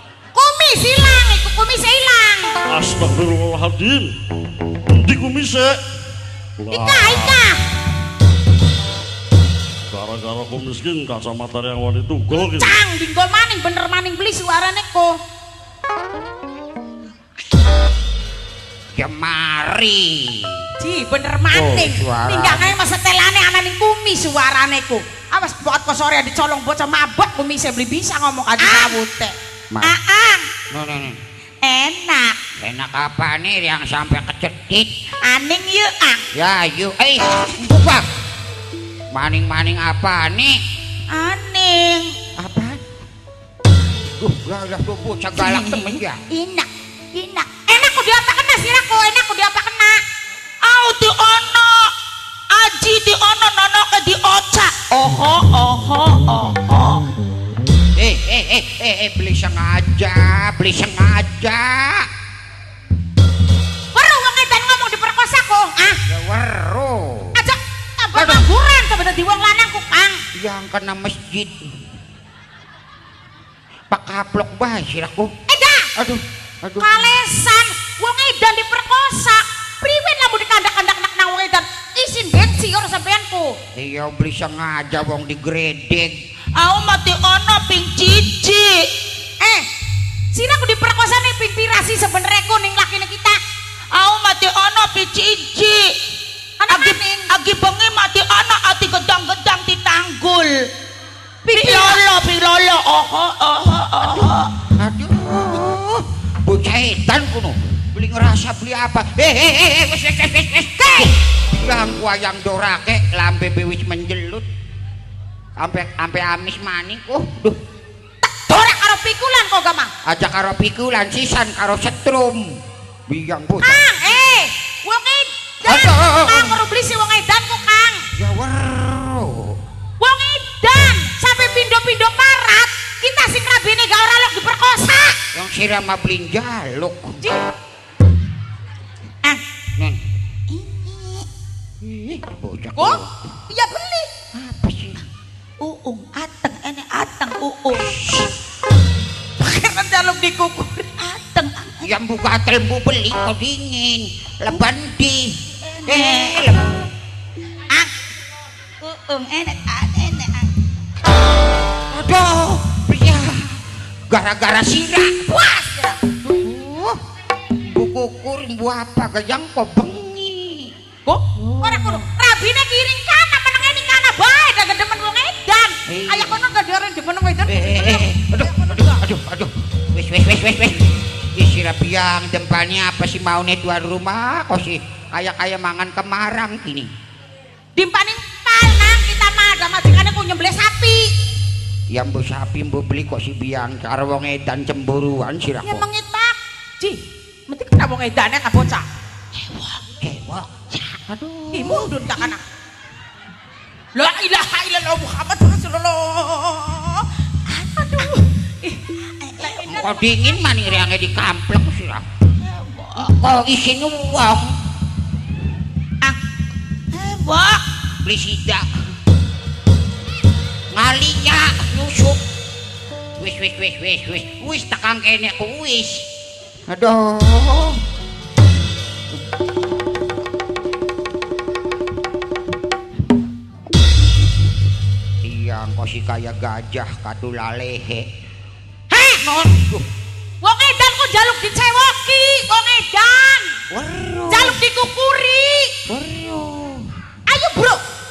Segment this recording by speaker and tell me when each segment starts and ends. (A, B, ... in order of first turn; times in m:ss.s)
0:00.4-0:02.6 A
0:02.7-0:04.1 B
0:04.9-0:05.7 B
0:06.6-0:07.4 B
0:06.7-0:07.6 A
0:09.9-0:12.8 B
0:12.4-0:15.1 A
0:19.0-0:20.6 C
0:20.8-0:29.3 A
0:21.5-0:22.8 C
0:28.6-0:29.0 D
0:29.8-0:30.5 D
0:30.7-0:31.2 C
0:31.6-0:32.4 D
0:32.6-0:34.9 C
0:35.2-0:36.2 D
0:36.3-0:38.1 C
0:39.1-0:40.6 C
0:41.1-0:42.1 D
0:42.4-0:42.8 C
0:44.2-0:46.2 C
0:45.4-0:47.9 D
0:47.7-0:50.0 A
0:50.6-0:51.9 D
0:52.5-0:57.0 D
0:58.0-1:02.1 C
1:03.9-1:06.0 A
1:06.1-1:07.4 C
1:07.4-1:10.2 A
1:08.1-1:08.5 C
1:10.4-1:11.7 C
1:13.9-1:15.3 C
1:15.5-1:15.9 A
1:16.0-1:17.0 C
1:16.8-1:23.5 A
1:23.8-1:26.2 C
1:26.6-1:28.8 D
1:29.4-1:29.7 A
1:30.3-1:33.4 A
1:33.9-1:35.9 D
1:36.6-1:37.3 A
1:36.7-1:40.7 D
1:41.4-1:44.5 D
1:41.5-1:42.0 A
1:44.2-1:54.5 C
1:55.6-1:57.6 C
1:58.2-1:59.9 A
2:00.1-2:02.4 C
2:03.1-2:04.2 C
2:03.6-2:08.0 A
2:05.7-2:06.6 C
2:08.2-2:09.6 C
2:10.0-2:15.2 A
2:15.3-2:17.2 C
2:20.5-2:21.3 D
2:21.8-2:23.1 C
2:22.8-2:24.1 A
2:24.3-2:25.0 C
2:25.6-2:27.9 D
2:27.7-2:28.3 C
2:29.5-2:30.8 A
2:31.0-2:31.9 D
2:31.8-2:35.4 C
2:35.6-2:36.5 D
2:35.9-2:36.6 C
2:38.8-2:40.5 D
2:41.9-2:43.6 C
2:44.1-2:45.2 C
2:45.2-2:46.0 A
2:46.2-2:47.0 C
2:47.6-2:50.7 C
2:51.1-2:59.0 A
2:51.4-2:52.0 C
2:55.9-2:56.4 C
2:57.5-3:06.9 C
3:07.8-3:11.1 A
3:11.9-3:15.9 C
3:15.6-3:17.0 A
3:17.5-3:18.8 A
3:19.4-3:19.8 D
3:20.0-3:22.3 C
3:21.5-3:22.4 A
3:24.0-3:28.1 A
3:29.2-3:30.1 D
3:29.6-3:32.1 C
3:32.4-3:33.1 D
3:33.0-3:34.5 C
3:36.9-3:37.6 D
3:38.0-3:38.7 C
3:40.7-3:42.2 C
3:43.2-3:46.0 C
3:46.7-3:47.8 C
3:55.2-3:58.1 C
3:58.9-3:59.2 A
3:59.2-3:59.9 C
4:00.4-4:03.5 A
4:03.7-4:04.6 C
4:04.3-4:05.7 A
4:05.9-4:06.9 C
4:07.3-4:07.8 A